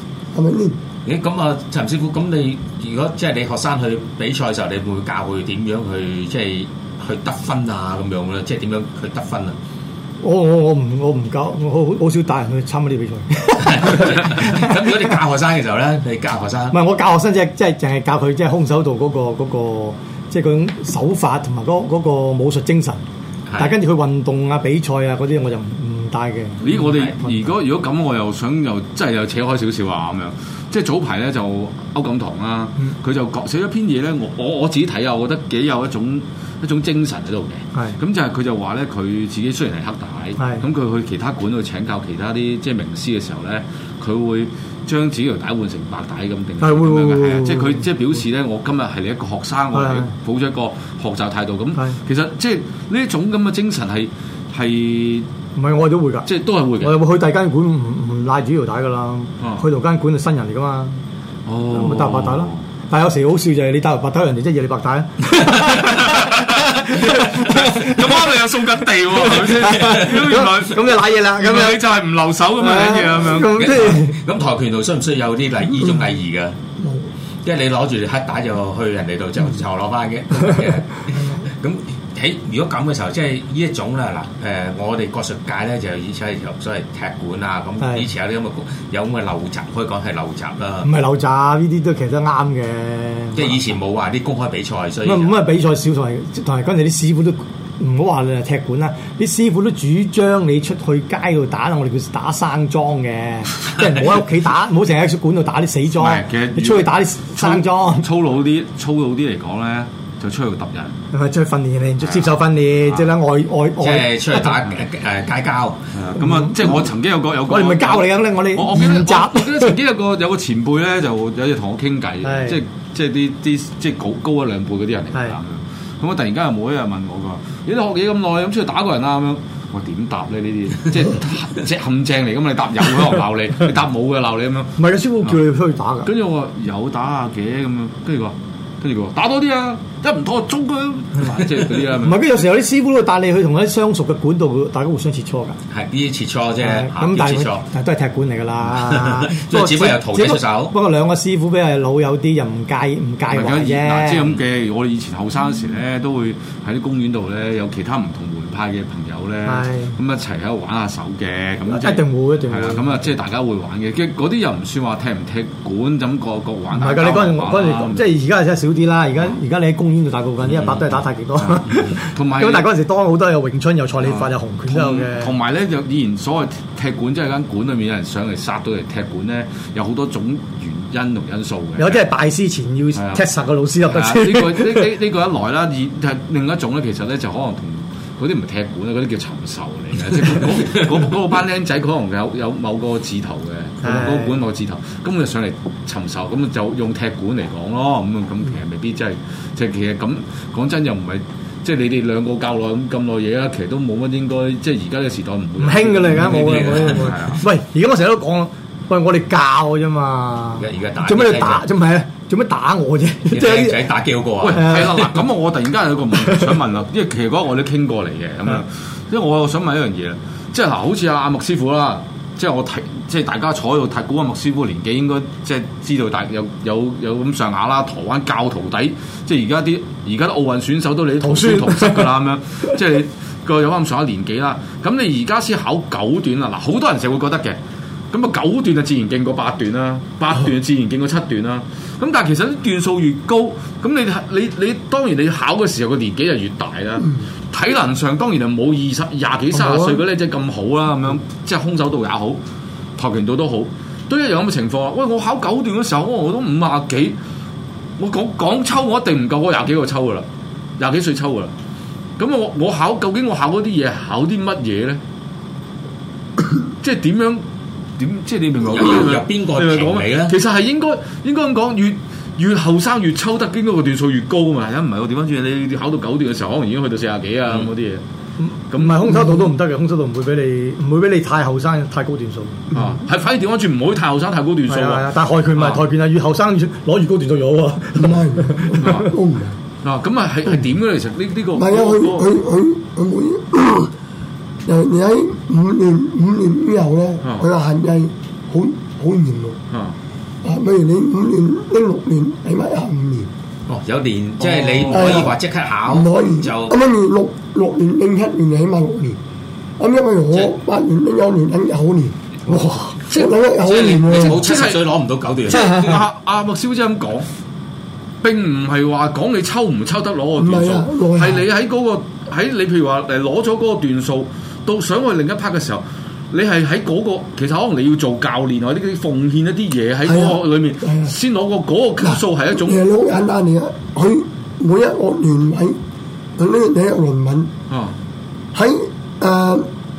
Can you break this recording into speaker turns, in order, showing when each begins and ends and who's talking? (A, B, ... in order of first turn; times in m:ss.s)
0:00.3-0:00.8 A
0:01.0-0:09.6 B
0:10.2-0:15.0 C
0:13.6-0:16.8 B
0:16.7-0:23.0 C
0:23.5-0:23.8 B
0:23.6-0:27.5 C
0:26.6-0:55.3 D
0:40.4-0:40.6 C
0:46.6-0:47.9 C
0:49.7-0:50.1 C
0:55.6-0:56.3 C
0:56.3-0:57.0 D
0:56.8-1:01.0 C
1:01.5-1:02.6 D
1:01.7-1:08.2 C
1:05.4-1:13.8 D
1:09.1-1:11.8 C
1:12.6-1:14.2 C
1:13.4-1:16.6 B
1:16.8-1:17.1 A
1:17.4-1:30.9 B
1:27.8-1:28.1 C
1:30.8-1:33.6 C
1:33.4-1:35.4 B
1:35.0-1:48.1 C
1:46.0-1:51.0 D
1:51.1-1:54.6 C
1:52.0-1:52.4 D
1:53.8-1:55.9 B
1:55.9-2:15.4 D
1:56.2-1:56.8 C
1:57.5-1:59.8 C
2:02.2-2:02.6 C
2:14.8-2:16.1 C
2:16.0-2:22.2 D
2:22.0-2:25.6 C
2:25.7-2:27.6 B
2:26.6-2:34.3 C
2:28.7-2:30.7 B
2:33.3-2:48.1 D
2:39.4-2:40.0 C
2:41.7-2:43.1 C
2:46.7-2:55.3 C
2:50.5-2:52.7 D
2:54.0-3:02.0 D
3:01.8-3:04.9 C
3:03.0-3:03.2 D
3:03.9-3:27.4 D
3:10.6-3:10.9 B
3:13.8-3:14.4 C
3:25.6-3:33.9 C
3:26.2-3:27.4 B
3:30.6-3:31.6 B
3:33.3-3:35.1 B
3:34.4-3:57.6 D
3:34.5-3:35.1 C
3:51.2-3:52.1 C
3:58.1-4:12.4 D
4:09.7-4:09.9 C
4:13.0-4:17.2 D
4:18.0-4:20.2 D
4:20.8-4:21.5 D
4:22.2-4:25.0 D
4:26.8-4:27.4 D
4:28.0-4:38.0 D
4:28.6-4:30.4 B
4:38.4-4:42.6 C
4:38.7-4:39.3 D
4:42.7-4:45.8 D
4:44.7-4:49.1 C
4:48.0-4:49.6 A
4:48.8-4:49.1 D
4:49.8-4:52.3 D
4:51.6-4:53.9 A
4:54.7-4:59.6 A
4:57.2-4:57.5 D
5:00.4-5:03.3 A
5:03.7-5:06.8 B
5:04.4-5:05.2 D
5:04.9-5:05.3 A
5:05.9-5:09.2 A
5:09.8-5:14.4 A
5:13.6-5:16.0 B
5:14.2-5:14.8 D
5:15.5-5:17.3 D
5:18.2-5:32.8 D
5:20.4-5:21.4 A
5:30.1-5:31.1 A
5:32.0-5:35.8 A
5:36.4-5:37.5 A
5:37.7-5:38.0 D
5:38.5-5:39.7 A